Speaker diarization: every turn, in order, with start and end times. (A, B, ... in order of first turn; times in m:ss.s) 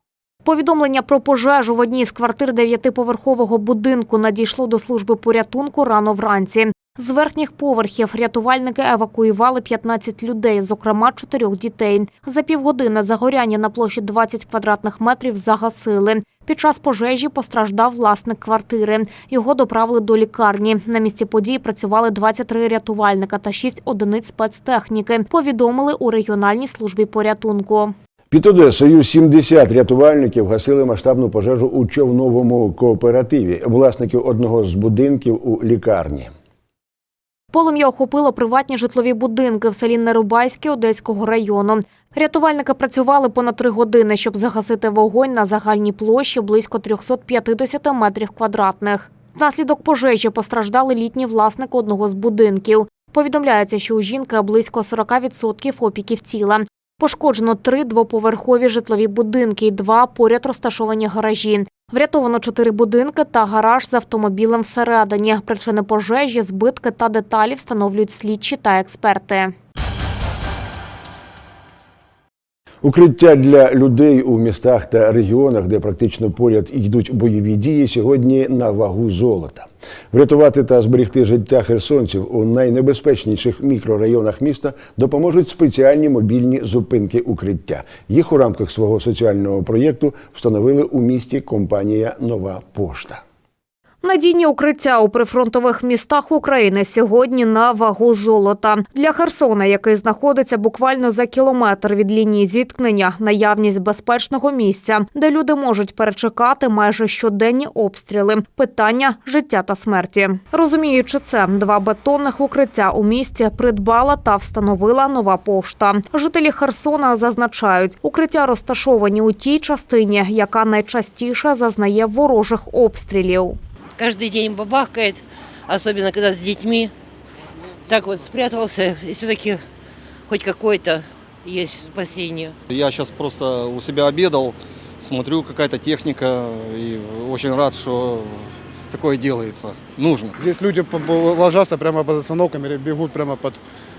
0:00.4-0:27.9 A
0:28.3-0:36.3 B
0:37.5-1:09.5 A
1:12.8-1:33.2 B
1:34.0-2:03.6 A
2:04.0-2:06.9 C
2:07.9-2:09.6 C
2:10.3-2:12.5 C
2:12.7-2:20.3 D
2:20.4-2:23.6 E